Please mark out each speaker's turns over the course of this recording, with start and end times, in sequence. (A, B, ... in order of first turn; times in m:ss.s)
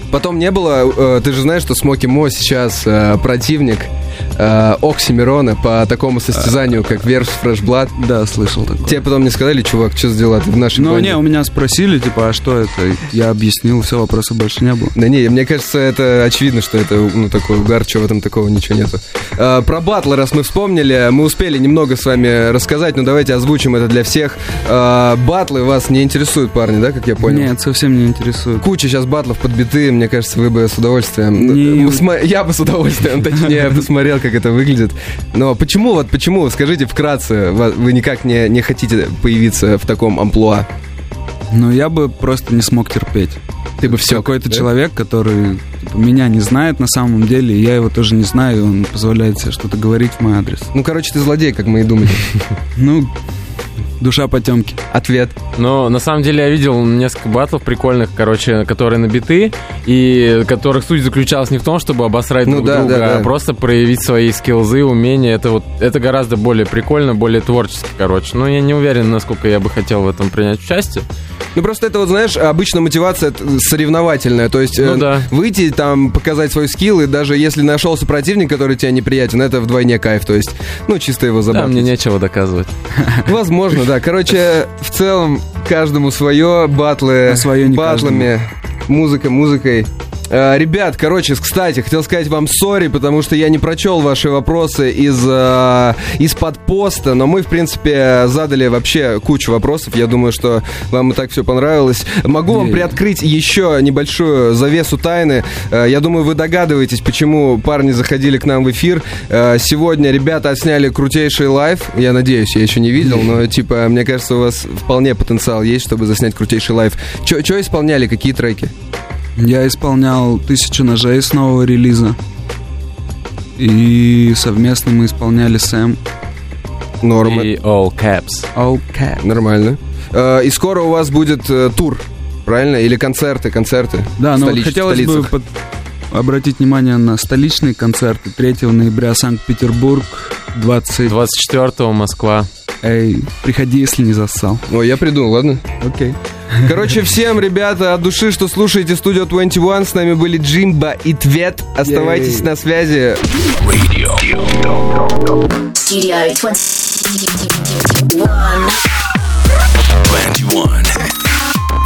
0:00.1-0:07.9 A
0:08.0-0:09.0 B
0:08.8-0:11.2 A
0:10.7-0:14.9 B
0:14.9-0:27.5 A
0:27.2-0:28.6 B
0:28.6-0:40.7 A
0:31.3-0:32.0 B
0:41.5-0:50.7 B
0:43.8-0:44.7 A
0:50.7-0:52.2 A
0:52.8-0:53.1 B
0:54.0-0:54.8 B
0:54.9-0:55.4 A
0:55.6-1:11.1 C
1:02.4-1:03.3 A
1:11.5-1:21.9 A
1:14.8-1:15.3 C
1:21.5-1:22.7 C
1:23.2-1:58.7 A
1:27.2-1:28.3 B
1:42.5-1:42.9 B
1:59.4-2:02.2 B
2:03.6-2:06.0 B
2:07.0-2:07.5 A
2:07.2-2:08.5 C
2:08.5-2:09.2 B
2:09.2-2:15.3 A
2:14.2-2:15.5 B
2:16.1-2:21.1 B
2:21.0-2:22.5 C
2:22.8-2:24.6 B
2:24.7-2:25.6 A
2:25.8-2:26.8 B
2:26.6-2:33.2 A
2:31.8-2:32.5 B
2:33.5-2:35.4 D
2:35.8-2:38.8 E
2:40.0-2:41.0 D